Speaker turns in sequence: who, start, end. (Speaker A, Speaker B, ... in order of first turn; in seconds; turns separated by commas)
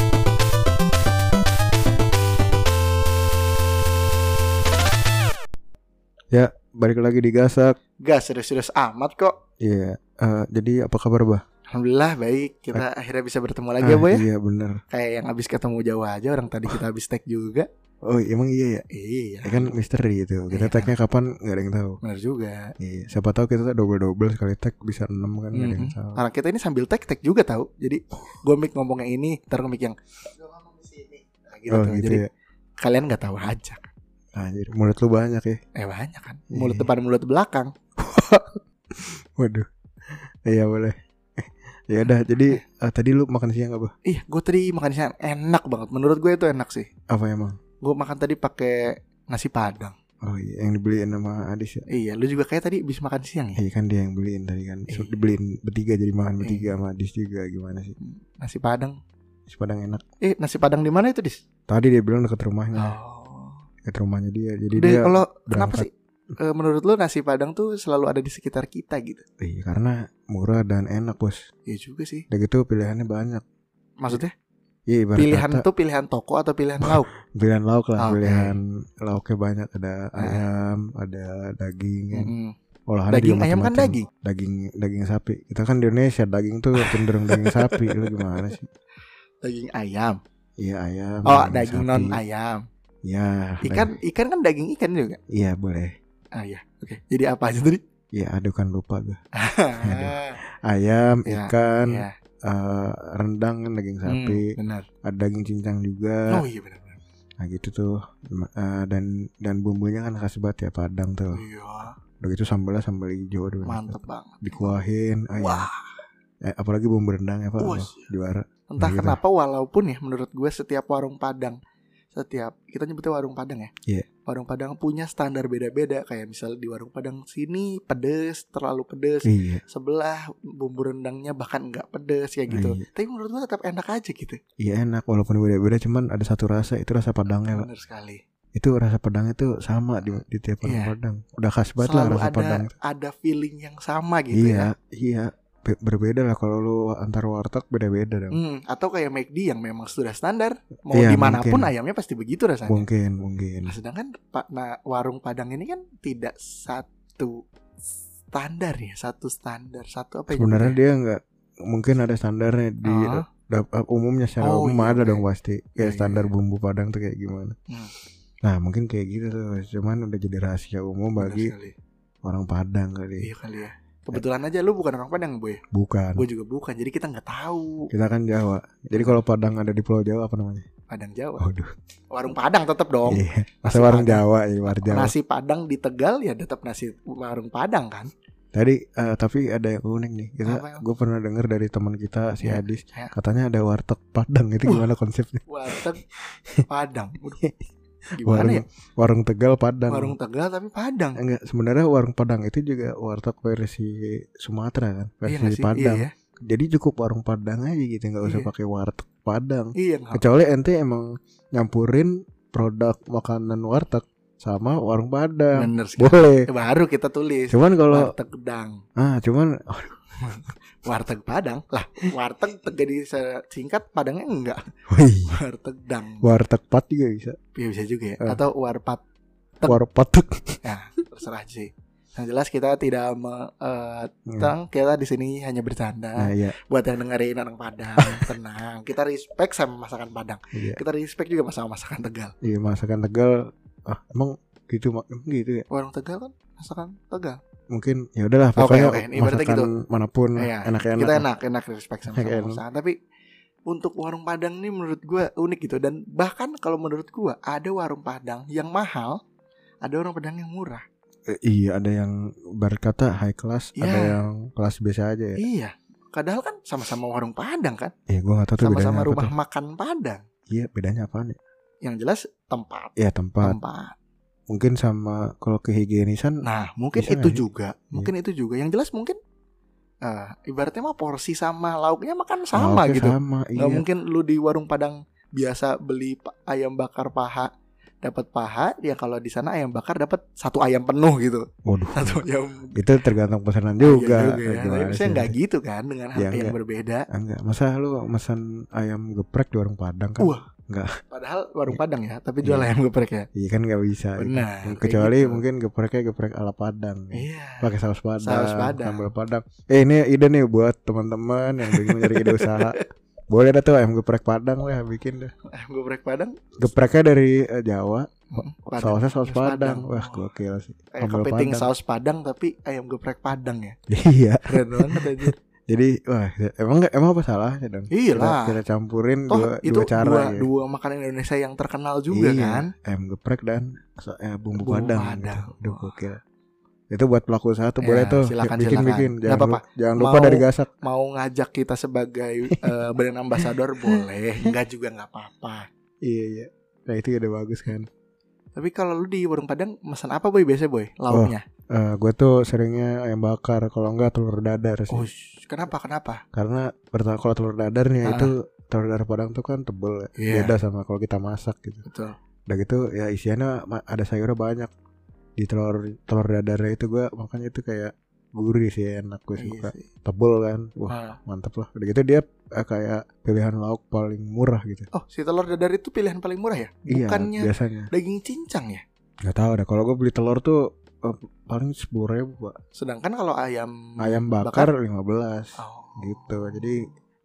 Speaker A: 6.3-7.8, Speaker B: 8.0-9.4, Speaker A: 9.6-11.4, Speaker B: 11.7-14.2, Speaker A: 13.8-14.8, Speaker B: 14.9-17.7, Speaker A: 18.1-18.8, Speaker B: 18.9-19.7, Speaker A: 19.4-22.0, Speaker B: 20.5-20.9, Speaker B: 22.0-22.7, Speaker A: 22.8-26.2, Speaker B: 25.5-32.2, Speaker A: 31.7-32.3, Speaker B: 32.8-33.8, Speaker A: 34.4-35.6, Speaker B: 35.7-37.7, Speaker A: 36.5-36.9, Speaker A: 38.0-43.9, Speaker B: 44.0-46.9, Speaker A: 47.1-47.6, Speaker B: 47.8-50.0, Speaker A: 50.2-51.9, Speaker B: 51.9-53.6, Speaker A: 53.5-58.0, Speaker B: 54.9-55.3, Speaker B: 56.4-56.7, Speaker B: 58.0-59.0, Speaker A: 59.5-60.0, Speaker B: 60.2-61.4, Speaker A: 61.7-63.0, Speaker B: 62.8-63.6, Speaker A: 63.9-65.9, Speaker B: 64.8-69.2, Speaker A: 69.4-71.4, Speaker B: 71.7-72.2, Speaker A: 72.3-73.4, Speaker B: 74.0-74.3, Speaker A: 74.9-75.7, Speaker B: 75.2-77.1, Speaker A: 76.8-82.3, Speaker B: 78.0-78.5, Speaker B: 80.2-80.5, Speaker B: 82.1-82.5, Speaker A: 82.9-88.7, Speaker B: 83.1-84.1, Speaker B: 86.8-88.5, Speaker B: 89.4-90.2, Speaker A: 90.6-92.2, Speaker B: 91.2-92.6, Speaker A: 93.0-94.0, Speaker B: 93.6-95.2, Speaker A: 95.3-95.9, Speaker B: 96.3-97.8, Speaker A: 98.1-99.2, Speaker B: 99.3-100.4, Speaker A: 99.8-106.4, Speaker B: 101.3-102.1, Speaker B: 104.0-104.9, Speaker B: 106.3-107.0, Speaker A: 107.4-111.4, Speaker B: 111.3-111.9, Speaker A: 112.2-115.7, Speaker B: 113.6-114.8, Speaker B: 115.4-115.9, Speaker A: 116.4-119.2, Speaker B: 117.6-118.1, Speaker B: 118.7-121.6, Speaker B: 122.1-123.7, Speaker B: 124.2-134.4, Speaker A: 129.2-129.6, Speaker A: 132.5-132.8, Speaker A: 134.6-137.7, Speaker B: 137.5-138.2, Speaker A: 138.5-142.7, Speaker B: 140.1-140.9, Speaker B: 141.8-144.7, Speaker A: 144.3-148.4, Speaker B: 148.3-152.8, Speaker A: 150.9-151.7, Speaker A: 152.7-153.7, Speaker B: 153.7-157.4, Speaker B: 158.3-160.8, Speaker A: 160.3-167.6, Speaker B: 162.8-163.2, Speaker B: 164.4-165.2, Speaker B: 165.8-166.3, Speaker A: 168.4-171.5, Speaker B: 171.2-171.7, Speaker A: 172.2-173.3, Speaker B: 173.2-175.6, Speaker A: 175.7-176.2, Speaker B: 176.2-177.9, Speaker A: 177.9-180.7, Speaker B: 178.9-179.2, Speaker B: 180.9-181.4, Speaker A: 181.4-181.7, Speaker B: 182.1-188.1, Speaker A: 183.1-185.1, Speaker A: 188.5-196.6, Speaker B: 190.4-190.8, Speaker B: 192.4-193.1, Speaker B: 194.7-194.9, Speaker B: 195.5-196.0, Speaker B: 196.7-197.4, Speaker B: 198.2-198.6, Speaker A: 198.2-200.1, Speaker B: 199.9-201.2, Speaker A: 201.2-216.5, Speaker B: 205.2-206.1, Speaker B: 208.2-208.5, Speaker B: 209.8-210.2, Speaker B: 215.6-218.8, Speaker A: 217.5-218.1, Speaker A: 218.9-220.0, Speaker B: 220.2-224.6, Speaker A: 224.9-225.4, Speaker B: 225.2-226.3, Speaker A: 226.2-227.4, Speaker B: 227.5-229.0, Speaker A: 229.6-230.6, Speaker B: 230.6-242.3, Speaker A: 234.3-234.5, Speaker A: 236.2-236.6, Speaker A: 238.0-238.3, Speaker A: 240.5-240.8, Speaker A: 242.4-245.7, Speaker B: 245.7-247.4, Speaker A: 247.7-251.2, Speaker B: 248.6-249.7, Speaker B: 250.4-252.9, Speaker A: 252.1-252.6, Speaker B: 253.7-259.2, Speaker B: 259.8-260.8, Speaker A: 261.3-265.4, Speaker B: 263.8-264.1, Speaker B: 265.4-267.9, Speaker A: 268.1-269.3, Speaker B: 268.6-270.2, Speaker A: 270.5-271.4, Speaker B: 271.8-273.9, Speaker A: 273.0-273.6, Speaker A: 274.5-278.1, Speaker B: 276.4-279.2, Speaker B: 280.0-287.5, Speaker A: 282.5-283.8, Speaker B: 288.0-292.8, Speaker A: 291.6-292.2, Speaker A: 292.7-295.3, Speaker B: 293.8-297.1, Speaker A: 296.1-296.6, Speaker A: 297.1-300.9, Speaker B: 301.1-303.3, Speaker A: 302.4-302.7, Speaker A: 303.3-312.8, Speaker B: 304.2-305.4, Speaker B: 307.1-309.1, Speaker B: 311.6-312.8, Speaker A: 313.3-315.3, Speaker B: 315.5-316.4, Speaker A: 316.6-321.7, Speaker B: 318.3-320.3, Speaker B: 320.9-323.8, Speaker A: 323.9-330.5, Speaker B: 324.5-325.3, Speaker B: 327.9-328.6, Speaker B: 329.3-332.7, Speaker A: 332.1-336.2, Speaker B: 334.6-336.0, Speaker A: 336.9-340.7, Speaker B: 337.8-345.7, Speaker A: 346.0-347.9, Speaker B: 348.5-351.4, Speaker A: 351.1-355.1, Speaker B: 354.9-356.2, Speaker A: 356.3-361.8, Speaker B: 358.0-358.3, Speaker B: 360.2-360.5, Speaker B: 361.9-362.1, Speaker A: 362.5-364.7, Speaker A: 365.4-374.9, Speaker B: 369.4-369.9, Speaker B: 370.9-371.2, Speaker B: 374.9-378.8, Speaker A: 376.9-377.9, Speaker A: 379.2-382.6, Speaker B: 382.8-384.7, Speaker A: 384.0-386.9, Speaker B: 385.6-386.9